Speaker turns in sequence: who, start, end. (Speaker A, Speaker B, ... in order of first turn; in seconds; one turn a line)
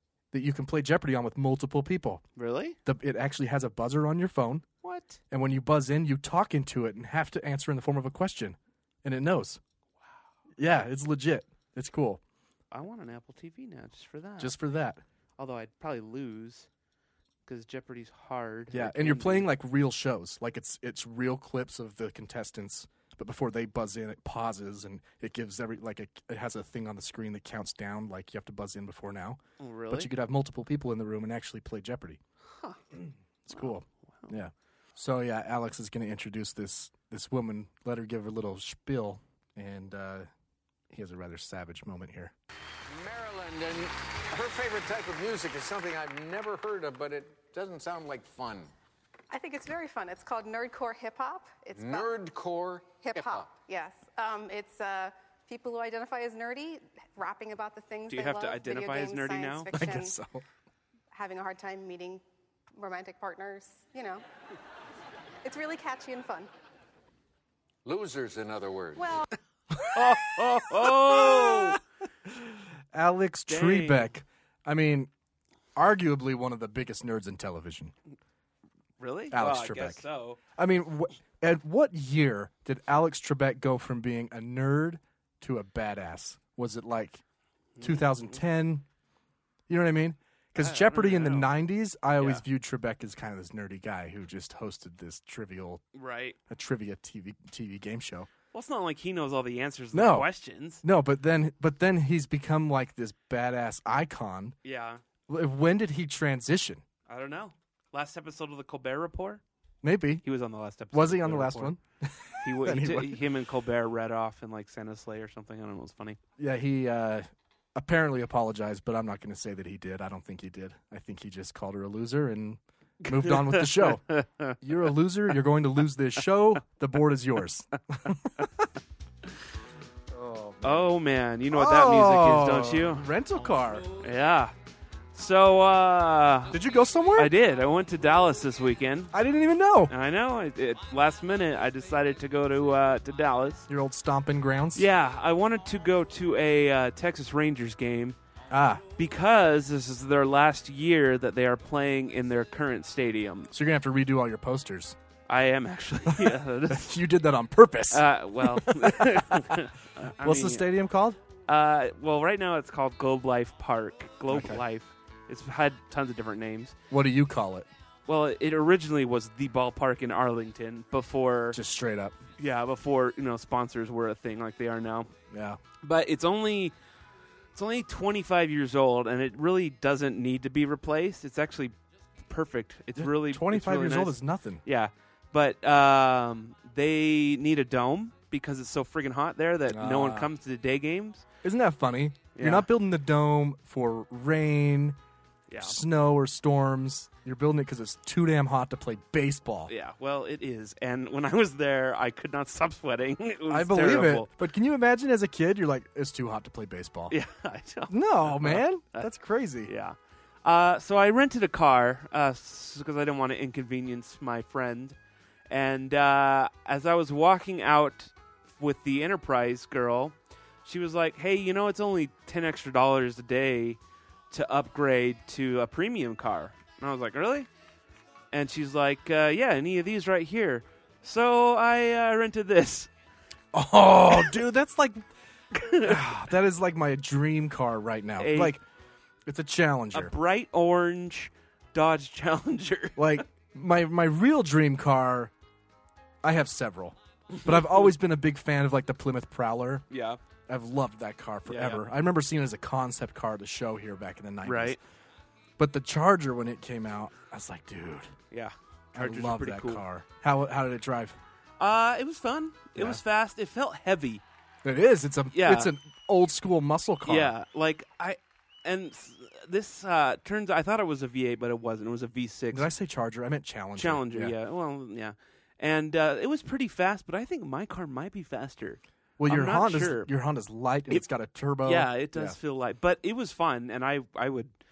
Speaker A: 0.3-2.2
Speaker B: 2.4-2.8
Speaker A: 2.9-4.7
Speaker B: 4.8-5.2
Speaker A: 5.3-9.6
Speaker A: 10.6-12.2
Speaker B: 12.7-14.6
Speaker A: 14.4-15.0
Speaker B: 15.4-16.7
Speaker B: 17.4-19.5
Speaker A: 18.7-32.2
Speaker B: 29.6-30.1
Speaker A: 33.5-40.3
Speaker A: 40.9-42.3
Speaker C: 42.9-48.7
Speaker D: 49.3-52.1
Speaker C: 51.7-53.5
Speaker D: 53.0-60.2
Speaker B: 58.1-59.7
Speaker A: 59.7-60.4
Speaker D: 61.1-62.2
Speaker D: 62.8-64.2
Speaker D: 65.4-66.5
Speaker C: 67.8-69.2
Speaker D: 69.0-69.3
Speaker B: 69.8-71.8
Speaker A: 69.9-75.1
Speaker B: 73.5-74.2
Speaker A: 75.8-77.9
Speaker B: 79.0-80.4
Speaker A: 79.3-80.0
Speaker A: 80.6-87.2
Speaker B: 87.8-88.4
Speaker A: 87.8-88.8
Speaker A: 89.7-95.8
Speaker B: 90.6-91.5
Speaker B: 92.2-92.4
Speaker B: 96.0-96.4
Speaker A: 96.5-98.3
Speaker B: 98.5-100.8
Speaker A: 99.9-100.3
Speaker A: 100.8-104.6
Speaker B: 104.6-105.0
Speaker A: 105.3-106.8
Speaker B: 107.1-109.4
Speaker A: 109.8-110.2
Speaker B: 110.2-111.8
Speaker A: 110.9-113.2
Speaker B: 112.4-116.2
Speaker A: 116.4-124.1
Speaker B: 123.1-124.6
Speaker A: 124.6-128.7
Speaker A: 130.1-130.9
Speaker B: 130.6-133.1
Speaker A: 131.5-133.9
Speaker B: 133.9-134.5
Speaker B: 135.1-136.6
Speaker A: 136.5-137.3
Speaker B: 137.2-139.1
Speaker A: 139.1-139.9
Speaker B: 139.9-143.7
Speaker A: 143.7-144.9
Speaker B: 144.8-148.2
Speaker A: 148.5-148.8
Speaker B: 149.0-153.5
Speaker A: 153.5-155.0
Speaker B: 155.3-157.0
Speaker A: 156.1-159.5
Speaker B: 157.9-160.7
Speaker A: 160.2-161.2
Speaker B: 161.5-166.8
Speaker A: 164.3-164.6
Speaker A: 166.9-167.7
Speaker B: 168.1-171.6
Speaker A: 171.5-172.2
Speaker B: 172.4-175.1
Speaker A: 175.3-175.6
Speaker B: 175.8-176.7
Speaker B: 177.6-181.8
Speaker B: 182.3-191.2
Speaker A: 183.0-184.6
Speaker A: 189.7-190.3
Speaker A: 191.4-195.0
Speaker B: 192.3-192.7
Speaker B: 195.5-195.8
Speaker A: 195.6-199.7
Speaker B: 199.7-204.3
Speaker A: 203.5-207.2
Speaker B: 207.1-209.1
Speaker A: 207.9-209.7
Speaker B: 209.6-215.0
Speaker B: 215.5-220.1
Speaker B: 220.7-223.8
Speaker B: 224.3-227.5
Speaker B: 228.3-232.9
Speaker A: 233.5-235.1
Speaker B: 235.5-236.1
Speaker A: 235.7-238.6
Speaker B: 238.2-238.6
Speaker A: 239.3-240.1
Speaker B: 239.9-243.2
Speaker A: 243.0-245.3
Speaker A: 246.2-249.8
Speaker B: 247.3-247.9
Speaker B: 249.9-250.2
Speaker A: 250.5-254.8
Speaker B: 251.5-251.8
Speaker B: 254.4-254.8
Speaker A: 255.6-258.1
Speaker B: 258.3-259.8
Speaker A: 258.9-261.2
Speaker B: 261.6-264.2
Speaker A: 262.8-263.0
Speaker A: 264.6-267.3
Speaker B: 265.3-265.7
Speaker B: 267.1-272.7
Speaker A: 272.5-274.4
Speaker B: 273.8-280.1
Speaker A: 279.2-282.4
Speaker B: 281.6-284.5